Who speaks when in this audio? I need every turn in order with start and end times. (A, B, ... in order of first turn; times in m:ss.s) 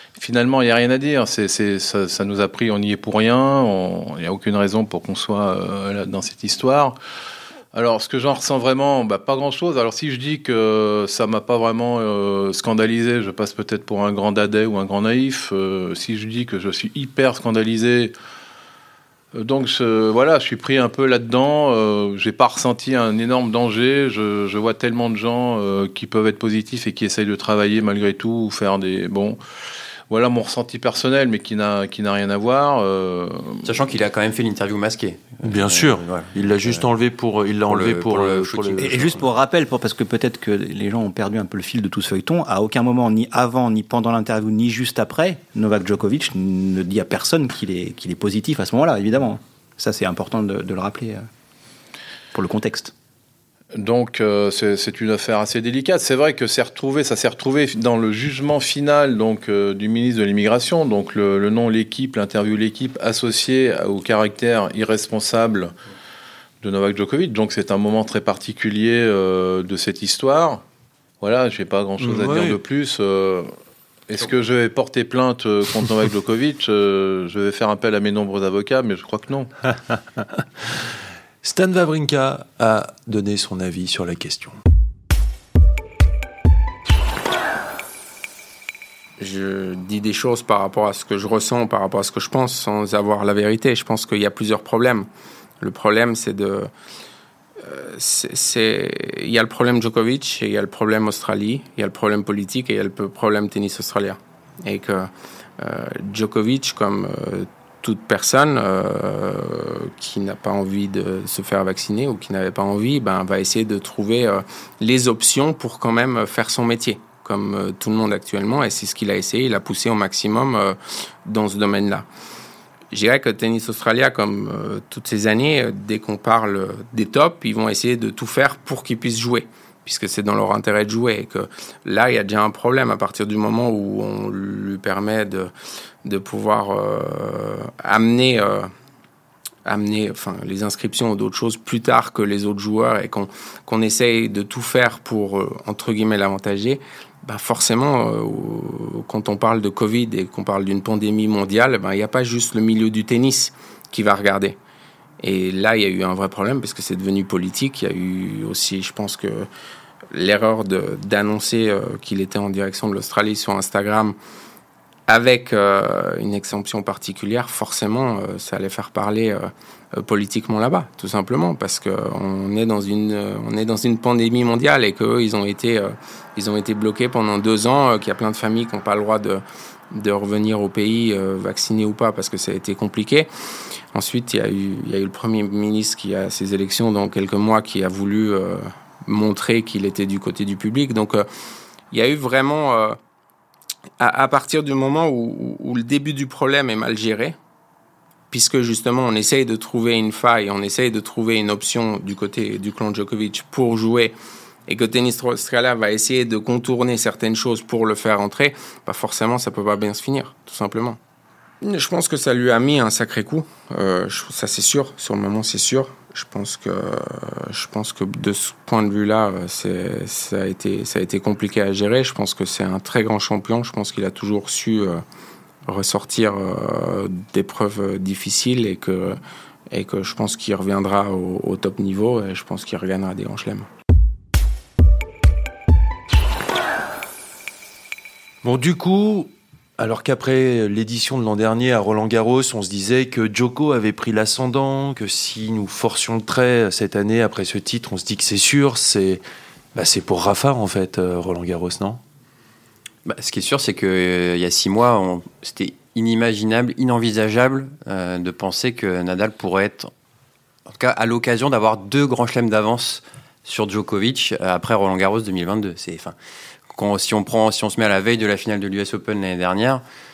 0:00.2-0:07.0 A
0:07.7-0:18.1 A
0:19.4-0:29.4 A
0:30.1-0:33.7 A
0:33.6-0:36.8 B
0:35.4-0:39.2 C
0:37.7-0:39.0 B
0:38.8-0:51.2 D
0:52.3-0:52.9 D
0:53.8-1:05.7 A
1:06.6-1:10.6 A
1:11.2-1:13.5 A
1:12.0-1:12.6 C
1:14.1-1:19.5 A
1:21.4-1:24.6 C
1:29.2-1:35.1 E
1:35.6-1:36.7 E
1:37.6-2:02.1 E
2:02.9-2:15.5 E
2:16.0-2:18.7 E
2:19.7-2:34.6 E
2:35.2-2:39.5 E
2:40.1-2:44.2 E
2:45.1-3:03.3 E
3:03.9-3:11.3 E
3:11.9-3:13.0 E
3:14.0-3:17.4 E
3:18.3-3:24.1 E
3:24.7-3:31.0 E
3:31.6-3:45.0 E
3:45.7-3:49.2 E
3:49.7-3:53.7 E
3:58.4-4:09.2 C
4:09.8-4:12.0 C
4:13.1-4:19.9 B
4:20.7-4:26.2 B
4:26.7-4:29.8 B